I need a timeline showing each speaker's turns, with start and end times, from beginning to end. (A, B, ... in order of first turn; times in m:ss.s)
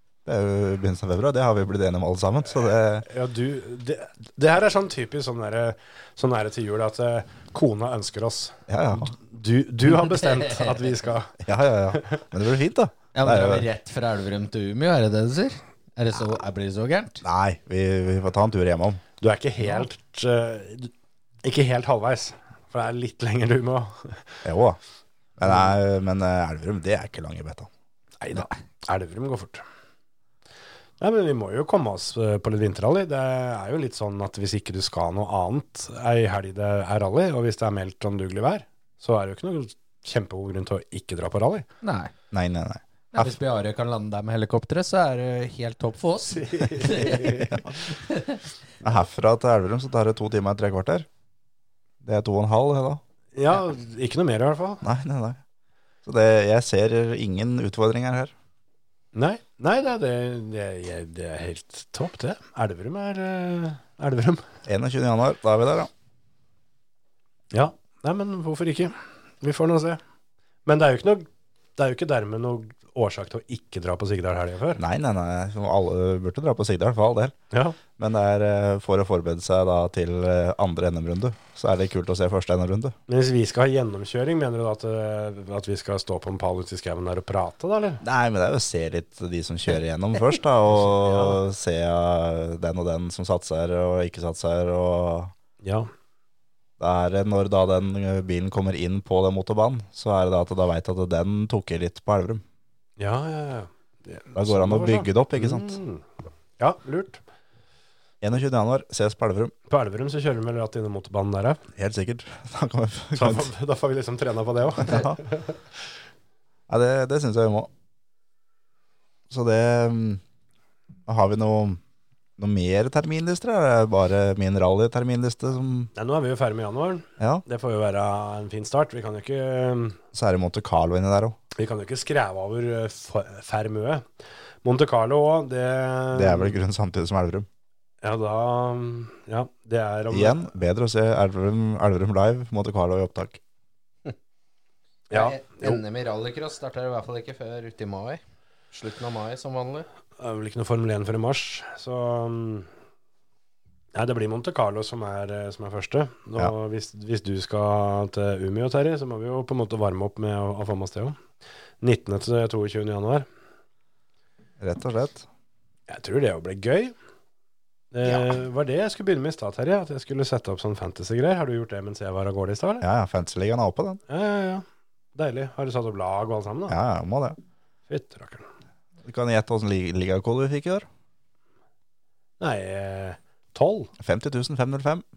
0:00.2-0:03.1 A
0:03.0-0:11.4 B
0:08.7-0:09.1 A
0:10.4-0:10.7 C
0:11.4-0:13.7 A
0:11.9-0:12.2 B
0:13.2-0:17.2 C
0:17.2-0:19.0 A
0:19.2-0:20.9 B
0:21.4-0:24.4 B
0:24.4-0:24.8 A
0:25.4-0:27.7 A
0:28.2-0:29.6 B
0:31.0-0:41.7 B
0:41.8-0:42.1 C
0:42.3-0:43.3 A
0:43.1-0:48.4 C
0:46.4-0:47.6 B
0:47.0-0:47.8 A
0:48.8-0:51.1 A
0:52.0-0:53.0 A
0:53.4-0:54.8 B
0:54.8-0:55.4 A
0:56.0-0:58.3 A
0:59.1-1:04.4 B
1:04.7-1:05.9 A
1:07.5-1:10.0 B
1:10.7-1:14.8 B
1:14.8-1:17.3 A
1:17.5-1:17.8 B
1:18.0-1:22.9 A
1:23.1-1:28.0 B
1:28.0-1:35.3 A
1:30.8-1:31.4 B
1:35.6-1:35.9 B
1:36.8-1:42.4 A
1:43.0-1:46.0 B
1:44.4-1:45.8 A
1:46.6-1:47.2 B
1:48.2-1:49.5 A
1:49.7-1:51.6 B
1:51.8-1:53.5 A
1:53.2-1:55.6 B
1:54.8-1:55.2 A
1:56.7-1:57.7 A
1:59.3-2:00.2 A
2:01.1-2:01.8 A
2:02.4-2:05.9 A
2:06.0-2:10.0 B
2:10.1-2:11.4 A
2:11.6-2:14.1 B
2:14.6-2:16.6 B
2:16.1-2:17.5 A
2:18.0-2:20.5 B
2:20.1-2:23.4 A
2:25.1-2:25.8 B
2:25.1-2:28.2 C
2:28.7-2:29.9 C
2:30.2-2:32.7 B
2:33.9-2:41.2 B
2:41.8-2:43.3 B
2:44.6-2:45.3 A
2:45.9-2:46.9 B
2:47.9-2:52.8 B
2:52.8-2:54.0 A
2:54.1-2:56.8 B
2:56.7-2:57.4 A
2:57.9-2:58.5 B
2:59.0-3:00.9 A
3:02.4-3:03.9 B
3:04.0-3:05.0 A